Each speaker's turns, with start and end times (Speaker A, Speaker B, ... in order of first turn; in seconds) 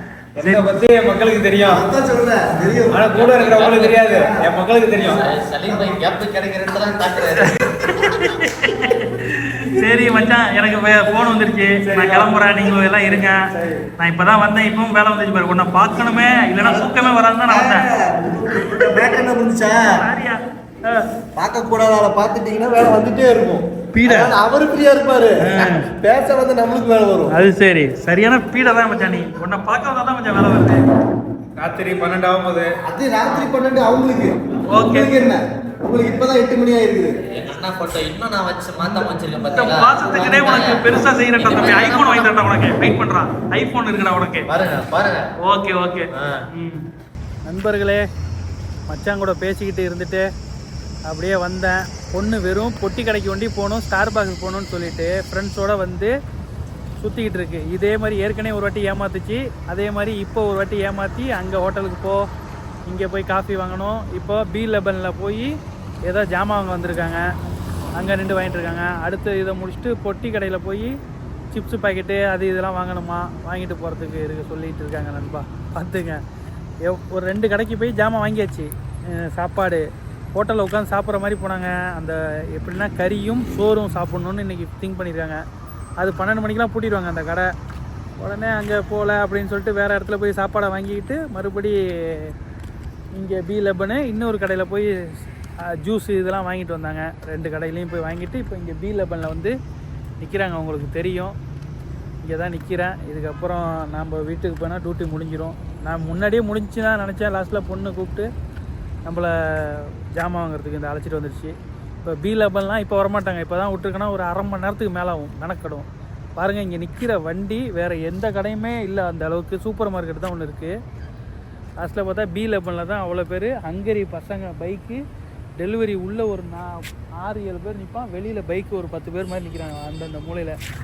Speaker A: 0.4-1.8, 2.9-5.2, 11.8-12.4, 13.5-13.9, 31.6-32.7
Speaker B: 1.6-6.0, 16.6-20.0, 21.4-27.3, 32.9-37.1, 38.9-39.1
Speaker C: 2.5-2.8, 7.4-13.5, 14.0-17.9, 18.5-19.0, 19.9-21.0, 23.9-24.3, 25.4-25.9, 27.3-30.9, 34.7-35.1, 39.5-44.5, 45.4-46.9, 47.5-48.0, 48.9-50.2, 51.1-56.1, 57.0-62.2, 62.9-65.5, 66.0-67.2, 67.9-70.9, 71.5-76.2, 76.8-79.8, 80.4-85.4, 86.0-87.5, 88.2-92.3, 93.1-94.9, 95.8-99.5, 100.2-101.3, 102.2-108.3, 109.0-115.9, 116.4-120.7, 121.8-125.0, 125.6-130.6
Speaker D: 3.2-3.9, 5.1-8.1, 37.3-42.3, 44.5-45.3, 46.1-46.4